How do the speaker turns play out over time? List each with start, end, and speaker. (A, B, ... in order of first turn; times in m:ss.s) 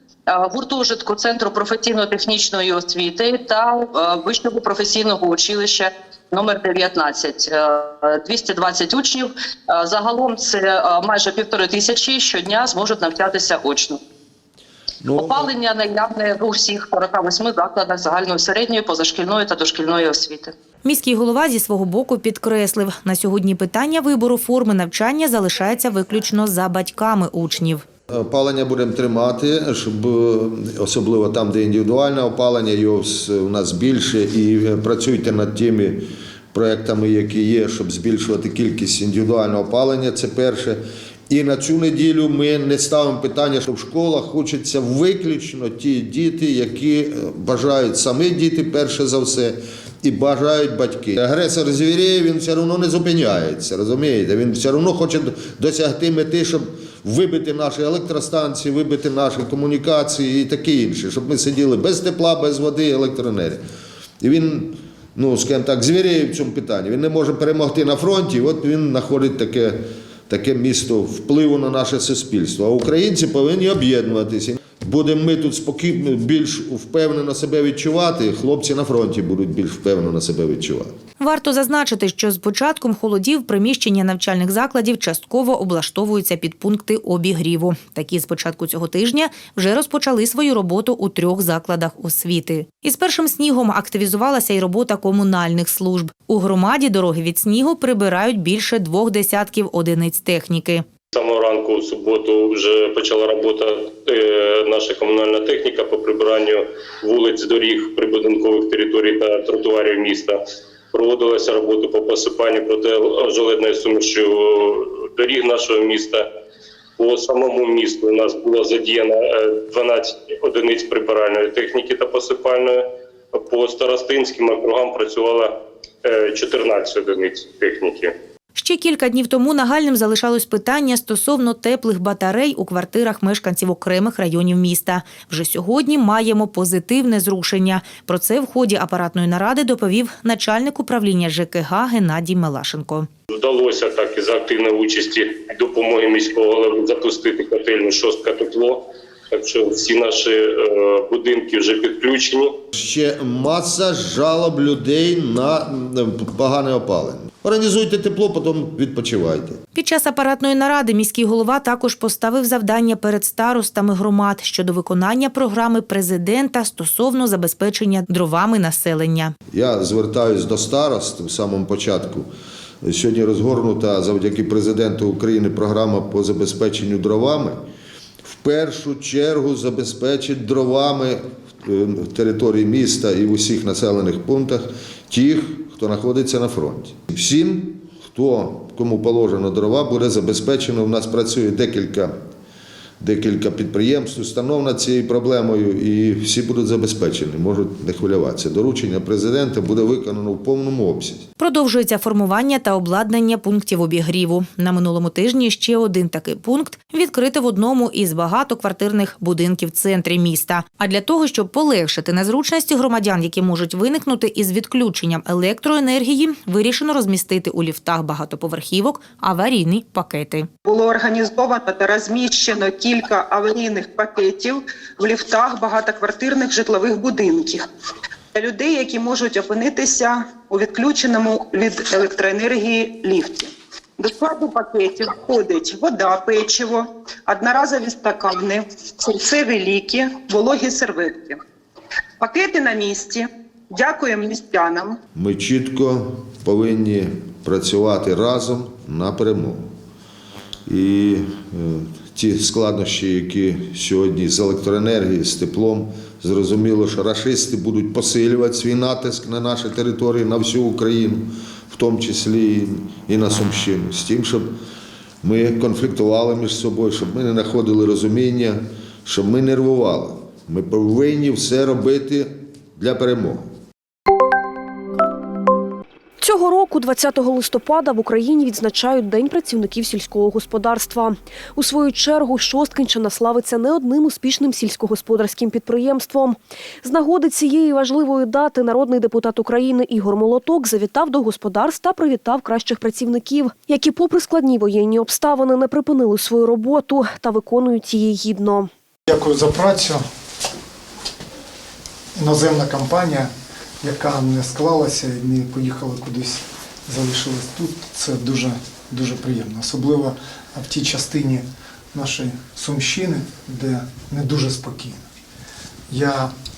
0:00.3-0:14.0 A
0:15.0-0:15.5 B
0:15.1-0:20.5 A
0:20.8-0:27.8 C
0:28.1-1:03.6 B
1:04.2-1:20.9 B
1:21.2-1:40.8 C
1:41.1-1:50.4 D
1:50.9-1:56.2 D
1:57.0-2:02.8 D
2:03.3-2:05.5 D
2:06.0-2:08.1 D
2:08.5-2:23.1 C
2:23.3-2:32.5 D
2:32.7-2:39.6 B
2:39.7-2:49.3 C
2:49.5-2:52.3 B
2:52.8-2:57.6 B
2:58.2-3:12.1 B
3:13.0-3:21.2 B
3:21.4-3:40.5 C
3:40.6-3:47.6 E
3:48.3-4:01.4 E
4:02.2-4:05.0 E
4:05.1-4:09.7 B
4:10.7-4:24.6 B
4:25.2-4:33.5 B
4:36.2-4:58.7 F
4:59.1-5:00.0 G
5:02.2-5:03.3 G
5:03.8-5:15.0 G
5:15.9-5:16.3 G